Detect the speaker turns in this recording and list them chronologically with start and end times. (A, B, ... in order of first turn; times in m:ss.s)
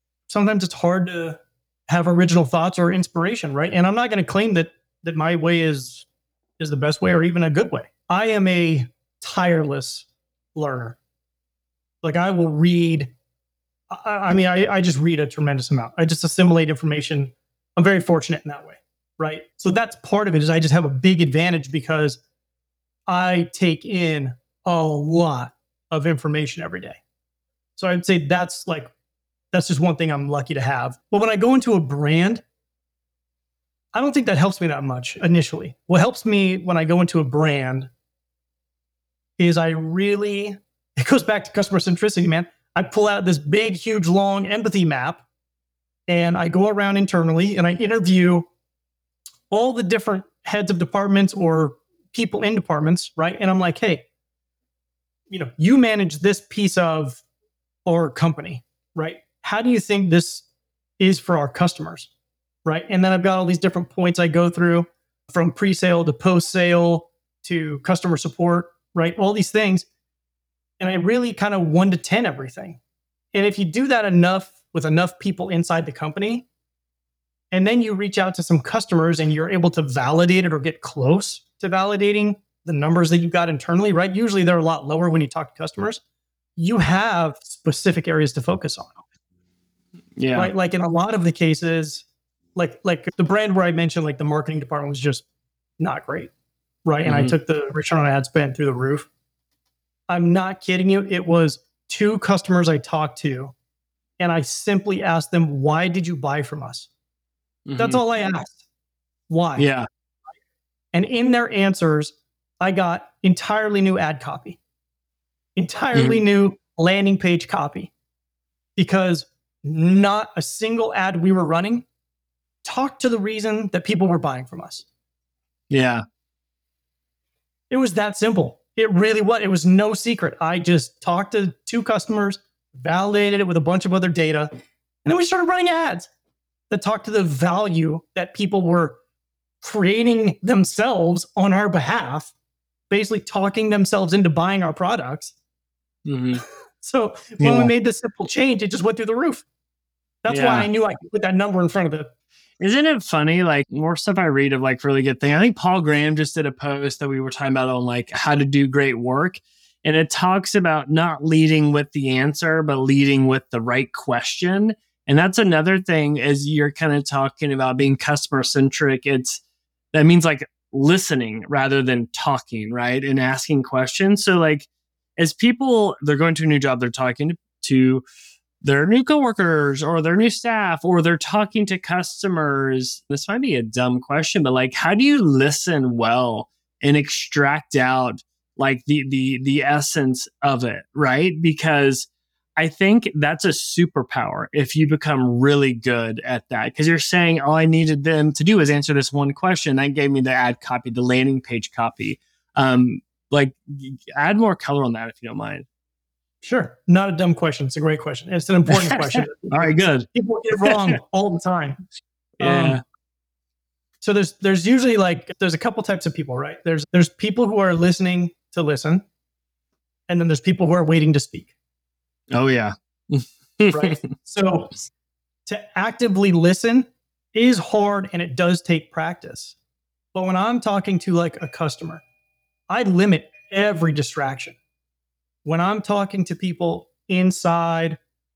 0:00.3-0:06.1 A
0:06.6-0:11.0 A
0:12.0-0:13.1 A
0:13.9-0:22.2 A
0:23.1-0:27.0 A
0:27.8-0:28.9 A
0:29.5-0:32.4 A
0:33.9-0:37.9 A
0:39.4-0:45.2 A
0:46.1-0:48.5 A
0:49.5-0:54.0 A
0:55.3-0:57.2 A
0:57.9-1:00.5 A
1:01.0-1:02.1 A
1:02.6-1:09.9 A
1:10.8-1:12.8 A
1:13.3-1:16.5 A
1:17.5-1:26.0 A
1:26.6-1:29.0 A
1:30.2-1:30.5 B
1:30.4-1:35.2 A
1:35.8-1:36.3 A
1:36.8-1:39.1 A
1:37.1-1:37.3 B
1:40.1-1:43.5 A
1:44.2-1:46.9 A
1:47.7-1:48.0 B
1:47.8-1:48.6 A
1:49.3-1:49.7 A
1:49.6-1:49.9 B
1:50.9-1:54.6 A
1:55.6-1:57.9 A
1:55.9-1:56.2 B
1:58.8-2:01.9 A
2:02.6-2:04.9 A
2:05.7-2:06.0 B
2:07.7-2:14.5 A
2:15.0-2:16.1 A
2:16.7-2:19.0 A
2:19.6-2:22.3 A
2:22.9-2:25.3 A
2:26.1-2:26.4 B
2:26.8-2:29.4 A
2:27.4-2:27.7 B
2:30.2-2:32.1 A
2:30.3-2:30.7 B
2:32.6-2:49.4 B
2:49.9-2:58.0 B
2:58.6-3:25.7 B
3:26.4-3:31.8 A
3:28.8-3:30.1 B
3:30.6-3:31.0 B
3:32.4-3:32.8 B
3:32.4-3:32.8 A
3:34.0-3:39.0 A
3:40.1-3:41.5 A
3:42.3-3:44.0 B
3:43.7-3:44.8 A
3:45.5-3:49.6 A
3:50.1-3:52.0 A
3:52.7-3:54.6 A
3:55.4-3:58.0 A